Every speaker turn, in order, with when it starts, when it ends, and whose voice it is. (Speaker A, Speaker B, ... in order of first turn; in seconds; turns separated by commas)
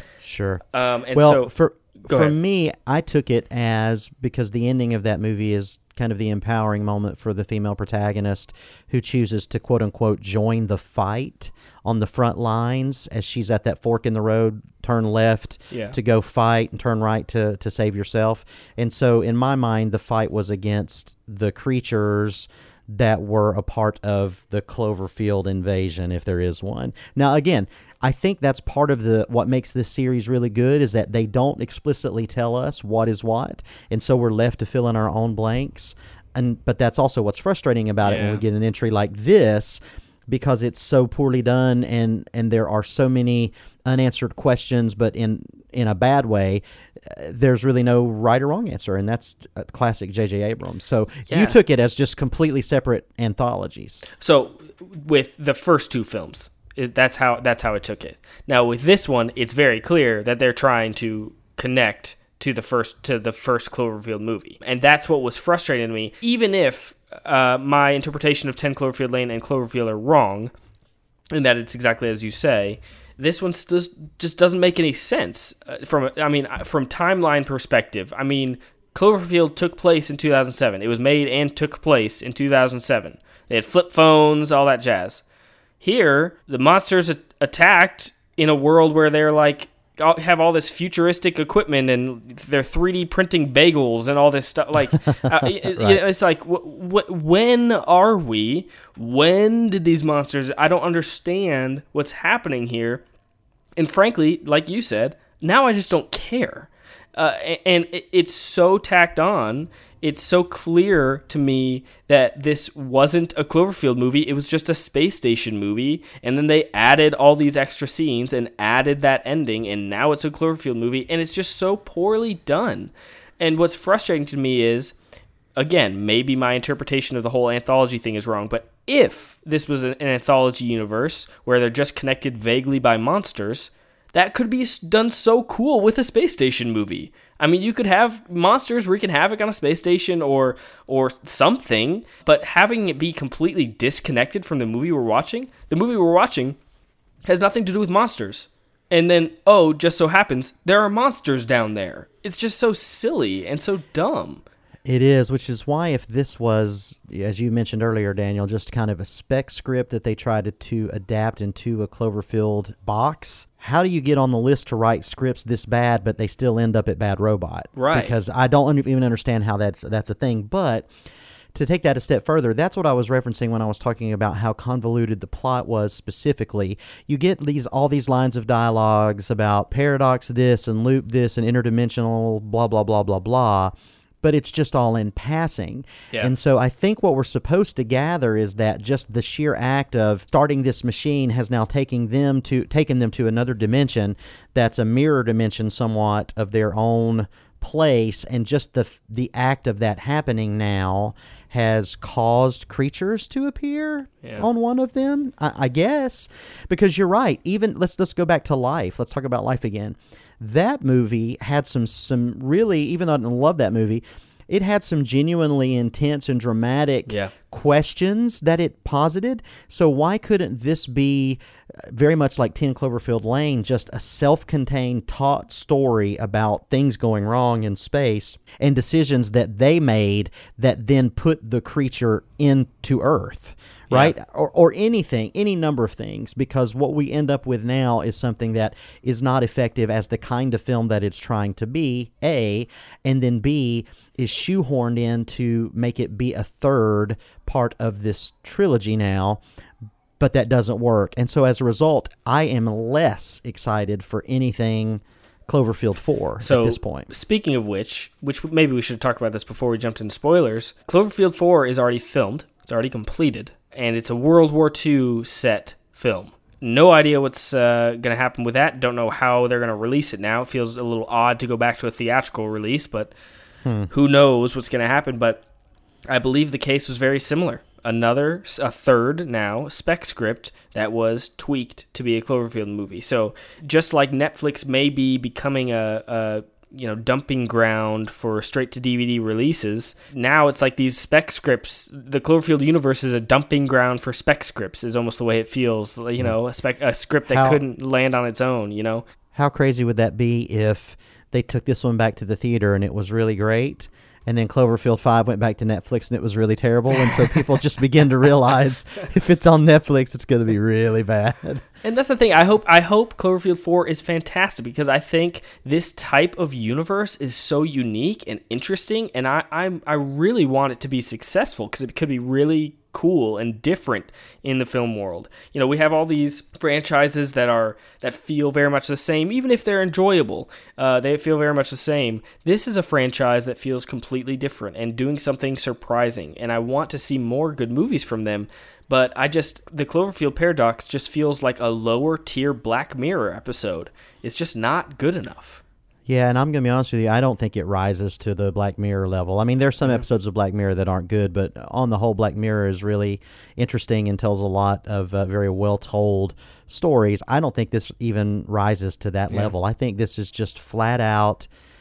Speaker A: 0.2-54.0, Speaker B: 0.7-1.5, Speaker B: 2.0-2.3, Speaker B: 15.7-15.9, Speaker B: 38.0-38.4, Speaker B: 51.3-51.6, Speaker B: 54.2-70.5, Speaker B: 71.3-85.2, Speaker B: 85.8-103.0, Speaker A: 95.1-96.0, Speaker B: 103.8-124.9, Speaker B: 125.5-146.6, Speaker B: 147.3-154.4, Speaker A: 154.8-170.9, Speaker B: 167.8-168.2, Speaker A: 171.5-249.4, Speaker B: 217.1-217.3, Speaker A: 250.2-257.1, Speaker B: 256.4-273.1, Speaker A: 273.6-273.9, Speaker B: 273.9-275.4, Speaker B: 276.1-299.1, Speaker A: 297.3-297.6, Speaker A: 299.3-311.6, Speaker B: 311.8-345.6, Speaker A: 346.1-361.5